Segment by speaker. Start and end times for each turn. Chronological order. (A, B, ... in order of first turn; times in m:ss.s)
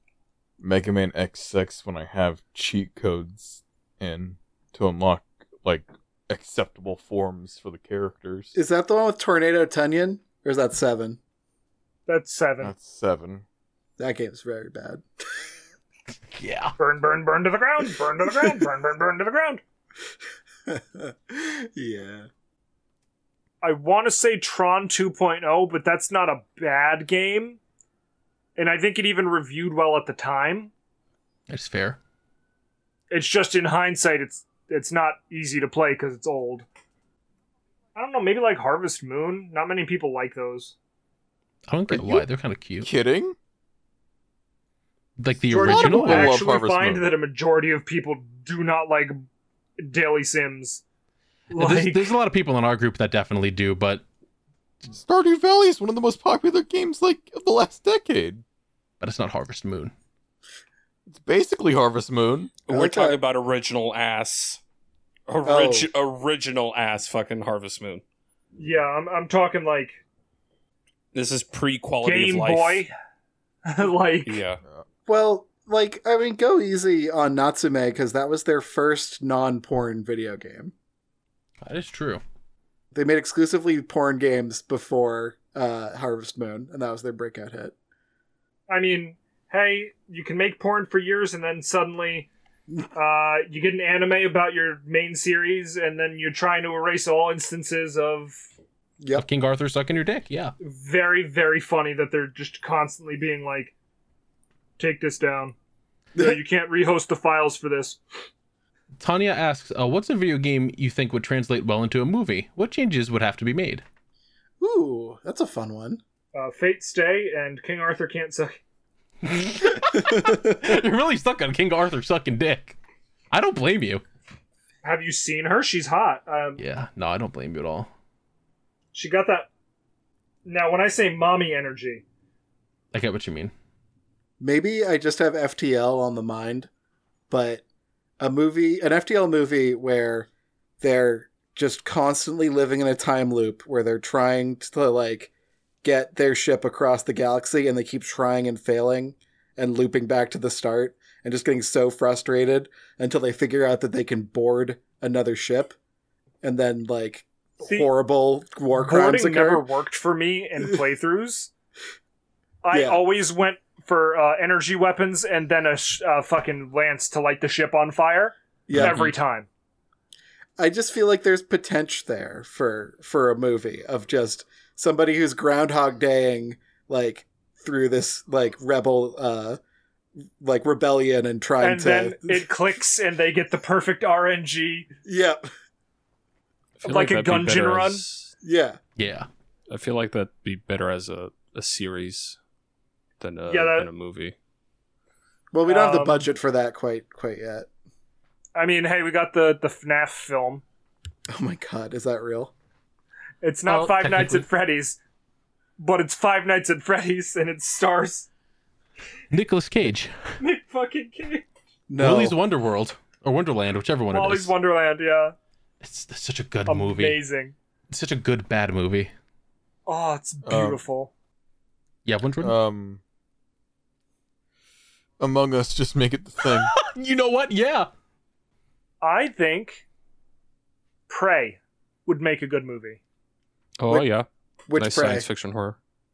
0:00.6-0:08.5 A
0:08.5-0:11.2 B
0:12.1-0:12.7 C
0:12.6-0:13.4 A
0:14.0-0:15.0 B
0:16.3-0:16.7 D
0:16.8-0:19.6 C
0:20.7-0:22.3 B
0:23.6-0:27.6 C
0:28.6-0:30.7 C
0:31.5-0:32.0 D
0:33.1-0:36.6 C
0:37.9-0:40.7 C
0:41.7-0:42.9 D
0:41.9-0:42.2 A
0:42.8-0:43.3 A
0:45.2-0:46.4 D
0:45.5-0:49.2 C
0:45.5-0:47.1 A
0:49.8-0:50.8 C
0:51.5-0:52.1 C
0:51.5-0:54.0 D
0:54.9-0:58.4 A
0:59.0-0:59.9 D
1:01.1-1:02.5 A
1:02.6-1:04.6 E
1:02.7-1:03.2 B
1:05.3-1:08.0 E
1:05.4-1:05.9 B
1:08.6-1:10.0 C
1:11.1-1:12.8 E
1:12.0-1:12.9 C
1:13.6-1:14.4 C
1:14.2-1:14.6 E
1:15.1-1:20.7 B
1:21.6-1:22.2 D
1:22.9-1:27.7 B
1:28.7-1:32.3 C
1:32.9-1:38.4 C
1:39.1-1:40.5 D
1:40.6-1:43.7 C
1:44.8-1:45.5 C
1:46.2-1:48.0 C
1:49.0-1:53.8 D
1:54.6-1:56.0 B
1:56.3-1:58.6 C
1:59.2-2:02.8 D
2:00.1-2:00.4 B
2:03.3-2:04.0 D
2:04.8-2:06.6 C
2:06.6-2:07.9 D
2:08.9-2:09.5 C
2:10.4-2:12.0 C
2:12.9-2:13.5 D
2:14.4-2:16.7 B
2:17.3-2:17.6 B
2:18.2-2:20.3 B
2:20.8-2:25.3 B
2:25.8-2:35.7 B
2:36.4-2:39.6 B
2:37.6-2:37.9 C
2:38.8-2:41.5 C
2:42.6-2:49.5 C
2:42.7-2:43.0 B
2:48.7-2:49.0 B
2:50.6-2:59.6 B
3:00.4-3:02.5 B
3:01.6-3:04.9 C
3:05.0-3:05.4 B
3:06.8-3:08.3 E
3:06.8-3:08.0 C
3:08.4-3:08.8 B
3:09.0-3:09.3 D
3:09.7-3:12.4 E
3:13.2-3:14.3 E
3:13.5-3:13.9 C
3:15.5-3:17.7 B
3:15.6-3:16.2 C
3:18.6-3:20.6 C
3:21.3-3:22.5 B
3:23.4-3:25.0 C
3:23.6-3:24.5 D
3:25.8-3:28.3 C
3:29.3-3:30.1 D
3:30.4-3:31.4 C
3:31.9-3:32.4 B
3:32.0-3:34.5 D
3:34.1-3:35.3 C
3:35.8-3:37.2 D
3:36.7-3:37.5 C
3:37.9-3:39.1 D
3:39.8-3:41.1 C
3:40.4-3:40.8 A
3:42.0-3:42.5 D
3:42.4-3:43.0 A
3:45.2-3:46.7 A
3:46.4-3:47.9 D
3:49.0-3:49.8 C
3:51.1-3:53.0 C
3:53.8-3:55.8 E
3:54.7-3:55.3 B